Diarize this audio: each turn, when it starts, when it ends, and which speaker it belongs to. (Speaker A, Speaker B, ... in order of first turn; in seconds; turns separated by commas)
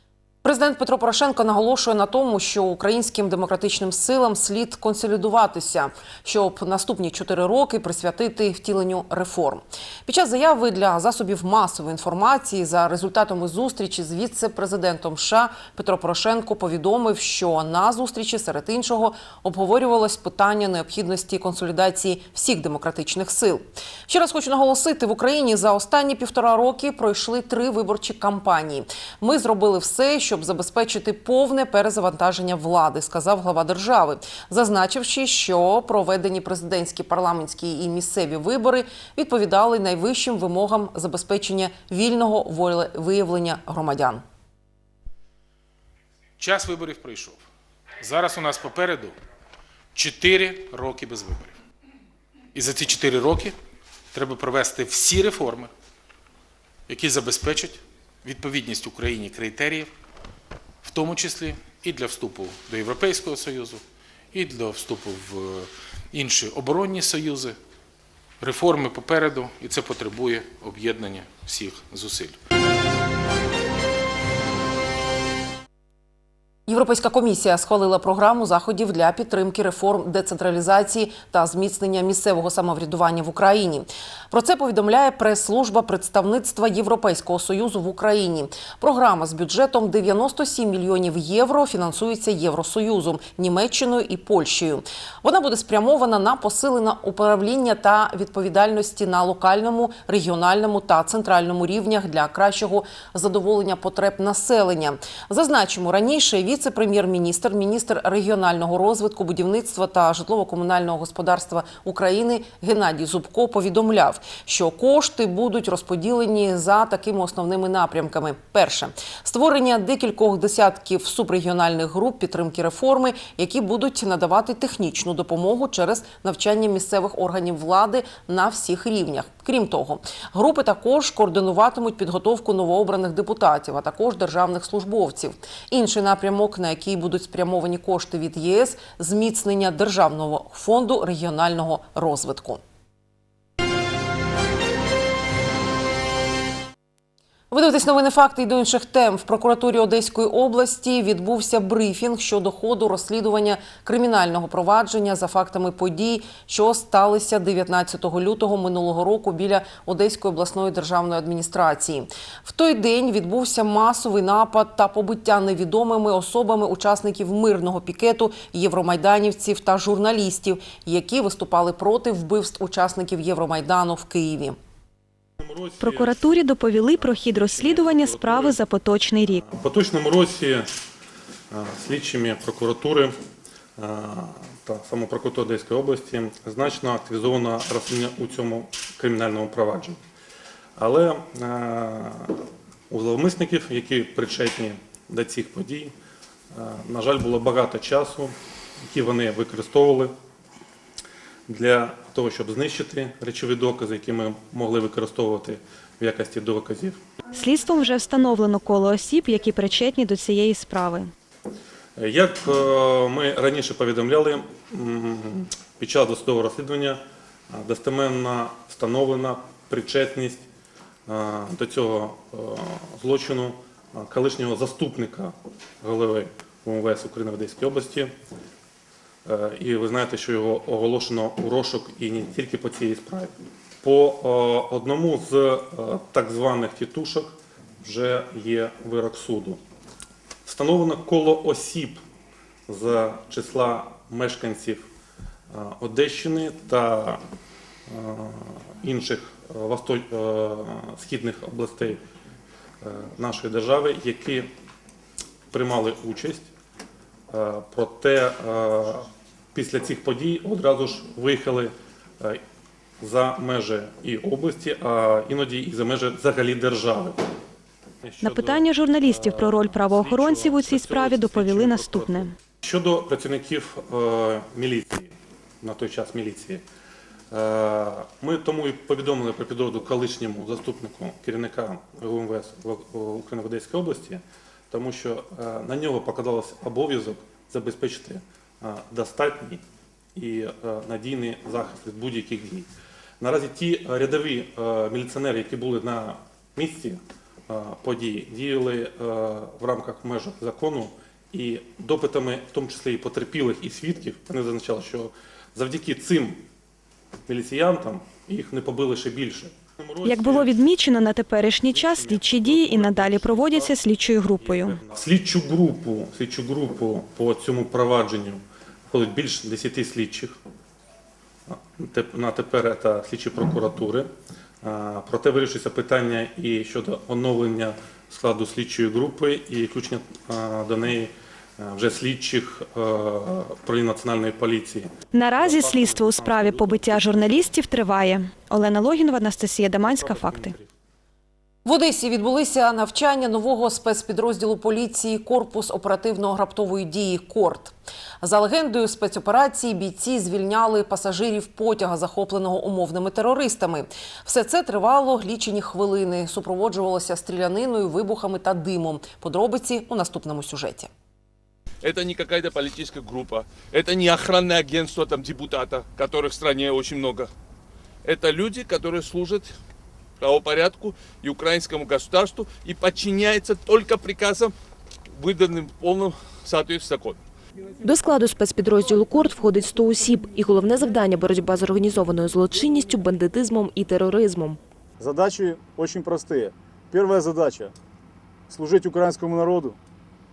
Speaker A: 0.4-44.2, Speaker B: 46.4-47.4, Speaker B: 48.0-49.2, Speaker B: 49.9-51.5, Speaker B: 52.5-53.5, Speaker B: 54.1-55.7, Speaker B: 56.9-59.9, Speaker B: 60.8-67.6, Speaker B: 68.4-72.4, Speaker A: 76.7-142.6, Speaker A: 147.5-174.6, Speaker C: 175.4-176.3, Speaker D: 175.8-179.4, Speaker C: 177.0-178.6, Speaker C: 179.2-180.7, Speaker C: 181.5-183.1, Speaker C: 183.8-190.0, Speaker C: 190.8-192.3, Speaker C: 192.9-195.9, Speaker C: 196.5-200.1, Speaker C: 201.5-207.0, Speaker D: 207.3-211.1, Speaker C: 211.9-220.4, Speaker C: 221.1-228.1, Speaker C: 229.2-239.6, Speaker C: 240.4-242.0, Speaker C: 242.7-244.9, Speaker C: 245.5-247.2, Speaker C: 247.9-252.0, Speaker C: 252.8-254.5, Speaker C: 255.5-256.5, Speaker C: 257.3-262.4, Speaker C: 263.0-267.2, Speaker C: 268.0-276.6, Speaker D: 268.2-272.3, Speaker C: 277.3-289.6, Speaker C: 290.1-292.7, Speaker C: 293.2-306.4, Speaker C: 307.3-310.6, Speaker D: 310.0-314.8, Speaker C: 311.6-320.4, Speaker C: 321.5-324.1, Speaker C: 324.6-337.5, Speaker D: 335.1-340.5, Speaker C: 339.8-340.7, Speaker A: 341.6-360.9, Speaker E: 361.8-367.3, Speaker E: 368.0-369.5, Speaker E: 370.2-374.5, Speaker E: 375.1-377.2, Speaker F: 377.8-384.6, Speaker G: 385.0-387.7, Speaker G: 388.5-389.8